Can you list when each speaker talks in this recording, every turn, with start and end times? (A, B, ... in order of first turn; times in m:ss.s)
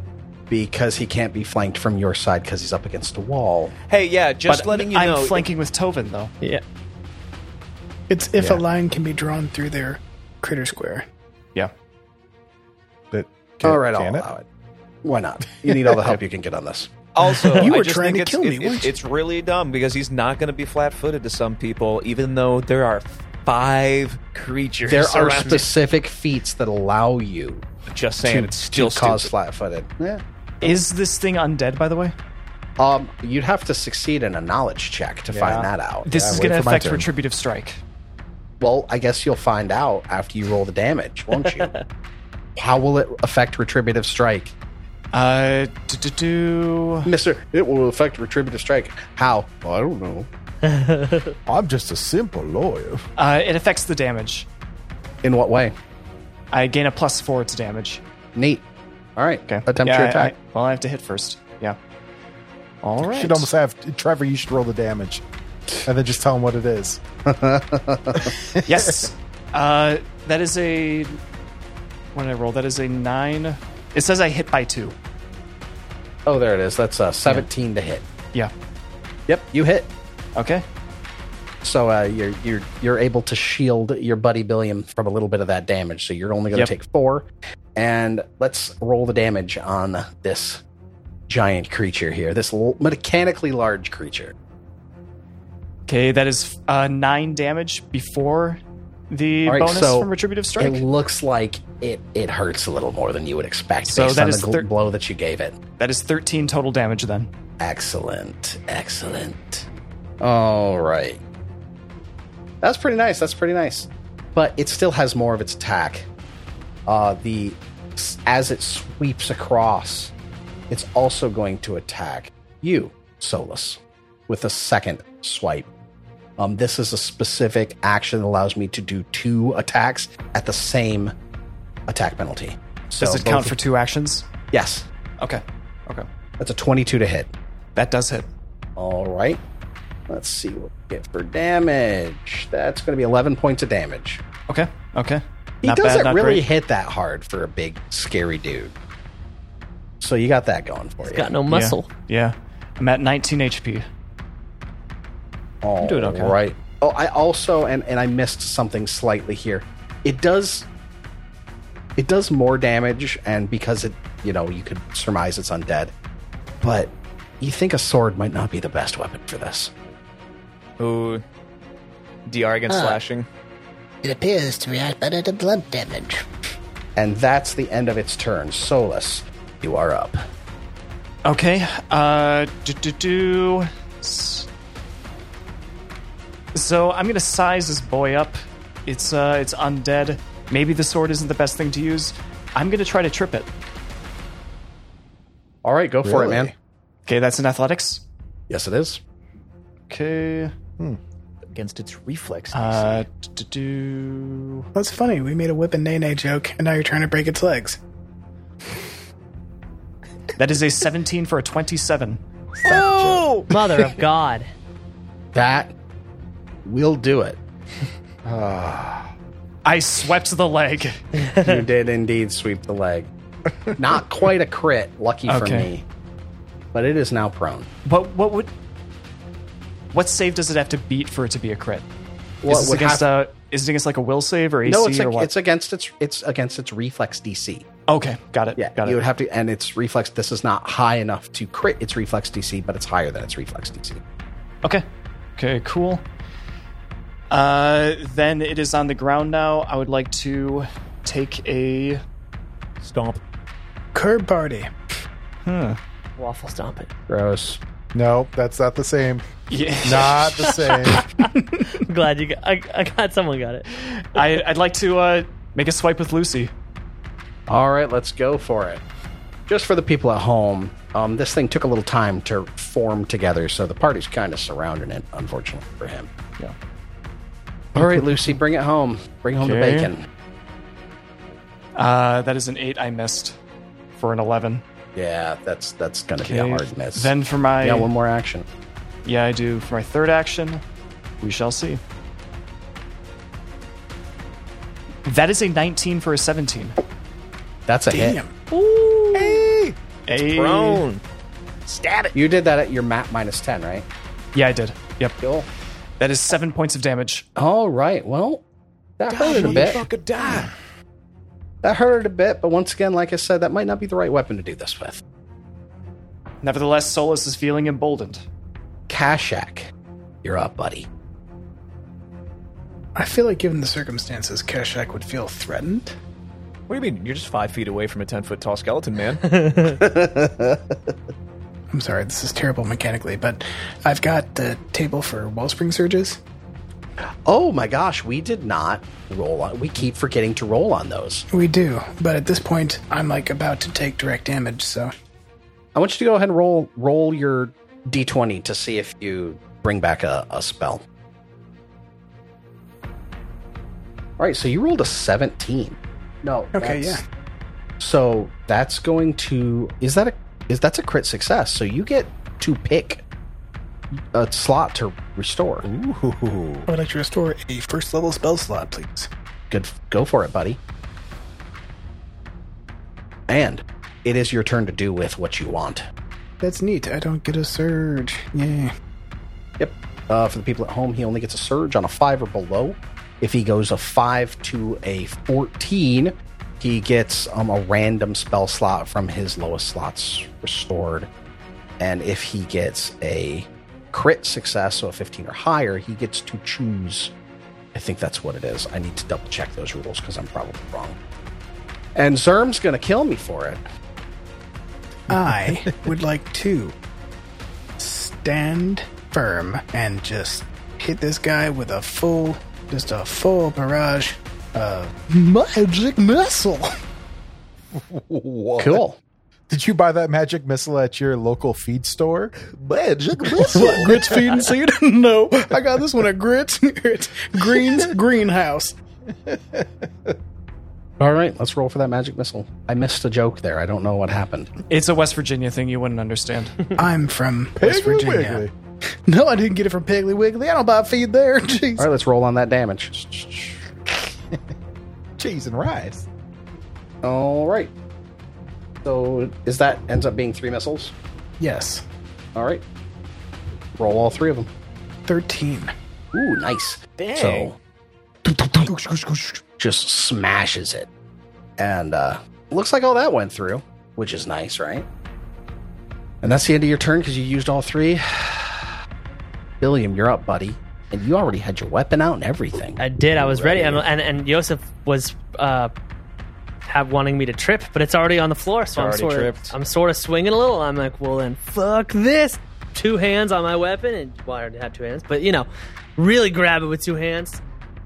0:00.5-0:03.7 A
0:03.9-0:05.4 B
0:04.5-0:06.3 C
0:08.1-0:11.0 D
0:13.1-0:14.3 E
0:13.6-0:14.4 A
0:15.0-0:16.9 A
0:15.6-0:15.9 E
0:17.1-0:25.6 B
0:17.5-0:18.9 D
0:24.8-0:27.6 A
0:25.2-0:25.6 F
0:27.9-0:29.3 B
0:28.2-0:30.8 A
0:30.6-0:32.1 C
0:32.8-0:36.5 A
0:35.3-0:37.1 E
0:35.5-0:37.8 C
0:38.6-0:41.7 A
0:42.6-0:44.5 A
0:45.1-0:47.1 C
0:47.0-0:50.3 A
0:50.6-0:51.4 F
0:51.4-0:53.0 E
0:53.2-0:54.5 C
0:55.2-0:55.7 A
0:56.5-0:58.0 C
0:58.3-0:58.6 A
0:59.2-1:00.3 A
0:59.5-1:01.8 C
1:02.8-1:03.5 C
1:03.0-1:05.2 E
1:05.8-1:07.0 E
1:07.2-1:08.3 A
1:08.2-1:08.9 E
1:08.6-1:11.2 C
1:12.1-1:14.9 C
1:16.2-1:18.0 A
1:19.3-1:19.9 A
1:20.3-1:20.6 C
1:21.6-1:30.6 A
1:31.3-1:34.3 A
1:35.9-1:40.8 C
1:39.5-1:45.6 A
1:43.8-1:44.6 C
1:45.8-1:47.3 C
1:47.6-1:49.7 A
1:50.2-1:51.2 A
1:52.6-1:56.1 A
1:56.9-2:00.1 A
2:00.7-2:05.7 A
2:06.4-2:11.1 A
2:11.9-2:13.6 A
2:13.0-2:14.3 C
2:14.5-2:14.8 A
2:15.2-2:16.1 C
2:16.4-2:17.3 A
2:17.7-2:18.3 C
2:18.8-2:19.4 A
2:20.1-2:24.2 A
2:24.5-2:26.4 C
2:25.6-2:28.7 A
2:30.0-2:31.3 A
2:31.0-2:31.9 F
2:31.5-2:33.8 C
2:35.6-2:40.7 A
2:35.8-2:36.3 C
2:42.0-2:45.9 A
2:46.6-2:49.7 A
2:50.8-2:51.2 B
2:52.2-2:53.2 B
2:54.0-2:56.2 G
2:57.0-3:00.2 A
3:01.2-3:04.5 C
3:06.5-3:13.5 C
3:15.6-3:16.5 A
3:16.0-3:16.5 E
3:17.1-3:18.0 C
3:18.5-3:19.0 A
3:19.9-3:20.5 C
3:21.5-3:23.0 B
3:22.5-3:24.7 C
3:24.7-3:27.8 D
3:30.4-3:32.2 C
3:32.6-3:33.5 B
3:32.7-3:33.2 E
3:33.5-3:34.5 F
3:35.3-3:35.7 A
3:36.6-3:37.4 A
3:38.2-3:39.1 E
3:39.6-3:41.0 C
3:41.2-3:41.6 F
3:41.4-3:43.1 A
3:43.8-3:45.8 A
3:45.3-3:45.7 C
3:46.7-3:47.7 A
3:47.8-3:48.5 C
3:49.9-3:51.8 C
3:52.4-3:53.1 A
3:52.5-3:55.3 C
3:54.6-3:57.6 A
3:57.9-3:59.0 C
3:58.6-4:04.0 A
4:05.4-4:06.0 C
4:07.3-4:12.0 C
4:12.8-4:13.2 B
4:13.9-4:14.7 D
4:15.4-4:15.8 C
4:16.2-4:16.9 F
4:17.1-4:17.6 A
4:17.9-4:19.3 E
4:19.5-4:20.7 C
4:19.8-4:21.1 E
4:20.4-4:23.6 F
4:23.7-4:26.5 C
4:27.5-4:28.8 A
4:29.5-4:36.1 A
4:37.7-4:40.0 A
4:37.8-4:38.2 C
4:39.4-4:39.9 C
4:41.8-4:43.4 C
4:44.0-4:44.6 C
4:44.9-4:48.4 A
4:46.2-4:47.9 C
4:49.0-4:50.6 C
4:51.2-4:51.8 C
4:55.0-4:56.8 C
4:57.7-4:58.2 A
4:57.9-4:58.3 D
4:58.5-4:59.5 F
4:59.1-5:01.0 B
5:00.1-5:00.8 C
5:01.7-5:02.1 B
5:02.1-5:03.9 A
5:04.3-5:05.2 C
5:05.2-5:05.5 A
5:06.0-5:07.2 C
5:07.4-5:08.4 A
5:09.0-5:09.8 A
5:09.1-5:10.5 B
5:11.6-5:15.0 A
5:16.4-5:18.2 C
5:18.9-5:19.7 A
5:20.2-5:20.9 A
5:22.9-5:25.9 D
5:26.7-5:29.2 B
5:29.2-5:29.8 F
5:29.6-5:30.9 A
5:31.7-5:36.2 D
5:37.2-5:41.2 A
5:41.3-5:44.9 D
5:45.7-5:50.8 A
5:54.2-5:57.0 A
5:56.5-5:57.0 D
5:57.8-6:03.0 A
6:03.9-6:05.7 A
6:05.6-6:06.7 E
6:06.7-6:09.1 D
6:09.5-6:10.6 A
6:13.3-6:15.9 A
6:16.4-6:18.7 D
6:19.6-6:31.1 A
6:31.8-6:37.1 A
6:37.7-6:41.0 A
6:41.9-6:43.6 A
6:45.1-6:45.9 E
6:45.1-6:46.7 D
6:47.8-6:56.7 D
6:57.7-6:58.8 E
6:58.6-6:59.0 A
6:59.5-7:02.3 E
7:02.5-7:04.2 B
7:03.2-7:04.2 E
7:03.4-7:08.8 D
7:09.3-7:10.1 E
7:11.0-7:14.5 A
7:14.7-7:16.7 C
7:16.8-7:18.5 D
7:17.6-7:18.5 E
7:19.1-7:21.8 D
7:21.8-7:23.6 A
7:25.2-7:26.0 E
7:27.0-7:27.7 A
7:28.8-7:30.9 A
7:31.4-7:31.8 D
7:32.3-7:32.6 A
7:33.8-7:34.5 A
7:35.1-7:35.7 D
7:36.1-7:37.6 A
7:37.0-7:37.5 B
7:39.6-7:40.9 A
7:41.6-7:44.8 A
7:46.2-7:48.8 A
7:49.6-7:52.8 A
7:52.8-7:55.7 F
7:53.2-7:53.8 B
7:56.6-8:07.4 F
7:58.7-7:59.5 B